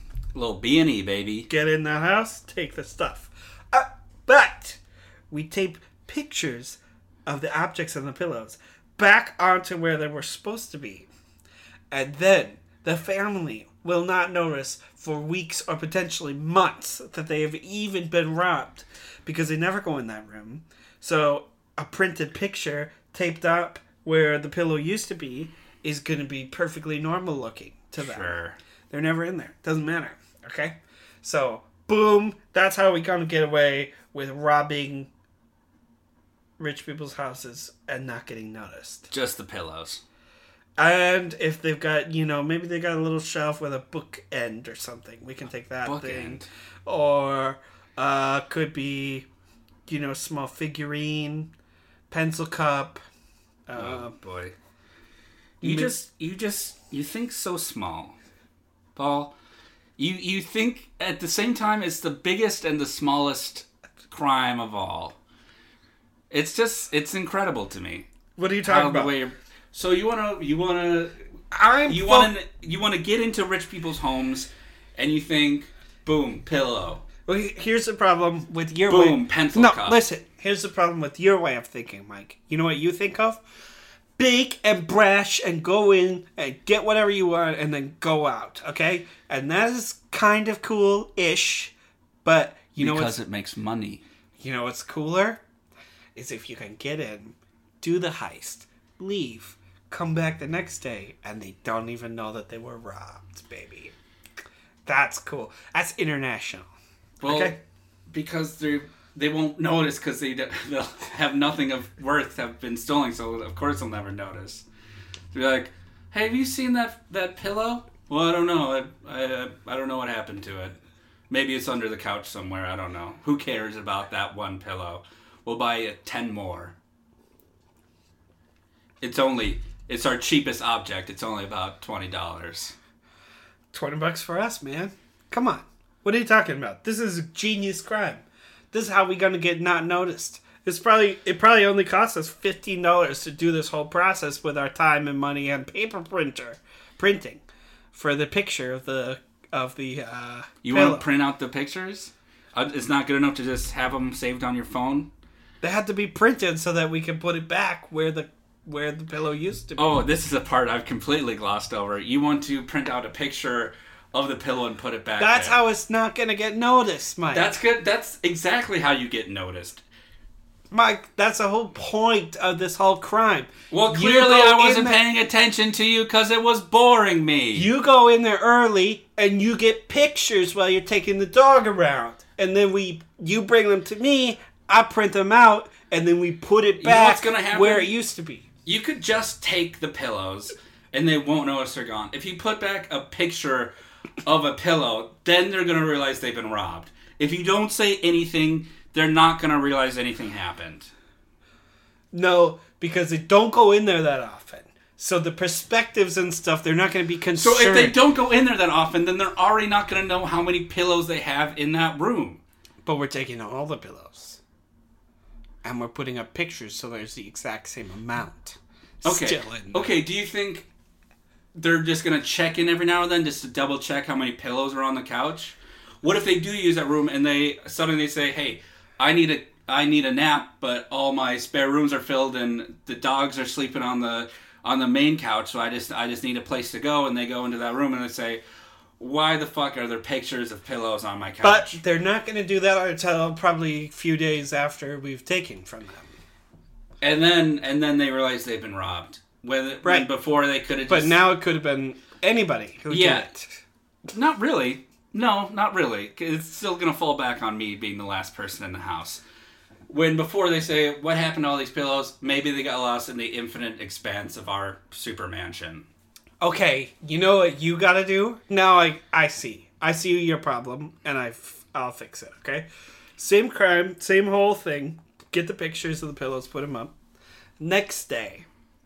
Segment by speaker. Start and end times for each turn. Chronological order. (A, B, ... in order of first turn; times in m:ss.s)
0:00.3-0:01.5 A
0:01.5-0:11.1 B
0:11.9-0:28.4 B
0:28.0-0:28.6 A
0:28.9-0:35.1 B
0:36.6-0:39.1 B
0:39.1-0:40.0 A
0:40.8-0:49.3 B
0:45.8-0:46.5 A
0:49.9-0:51.5 B
0:52.1-0:53.0 B
0:53.7-0:54.1 B
0:53.8-0:54.5 A
0:55.6-0:55.9 B
0:55.6-0:58.2 A
0:59.0-0:59.3 A
1:00.0-1:05.2 A
1:06.3-1:08.0 A
1:08.4-1:09.1 B
1:08.6-1:11.1 A
1:11.5-1:12.3 B
1:11.9-1:17.0 A
1:17.2-1:23.4 B
1:18.9-1:20.0 A
1:24.2-1:33.2 B
1:32.8-1:34.0 A
1:34.4-1:35.4 B
1:36.1-1:43.9 B
1:44.9-1:46.7 B
1:47.2-1:47.6 A
1:47.2-1:47.6 B
1:48.1-1:54.6 A
1:55.3-2:00.8 A
2:01.3-2:06.8 A
2:09.0-2:12.7 A
2:13.7-2:31.0 B
2:30.6-2:35.1 A
2:35.6-2:39.9 B
2:39.8-2:45.6 A
2:45.2-2:47.5 B
2:47.3-2:49.8 A
2:50.7-2:55.0 B
2:53.7-2:57.7 A
2:57.5-3:08.5 B
3:06.8-3:07.9 A
3:08.6-3:13.7 A
3:14.2-3:20.9 A
3:22.1-3:28.0 B
3:27.3-3:32.4 A
3:32.8-3:34.4 B
3:35.6-3:39.9 B
3:39.0-3:40.7 A
3:41.5-3:58.4 A
3:59.0-4:01.8 A
4:01.4-4:06.2 B
4:07.0-4:11.2 A
4:09.8-4:10.1 B
4:10.9-4:13.6 B
4:12.9-4:13.3 A
4:14.1-4:19.2 A
4:19.9-4:25.9 A
4:26.4-4:36.9 B
4:37.6-4:38.5 B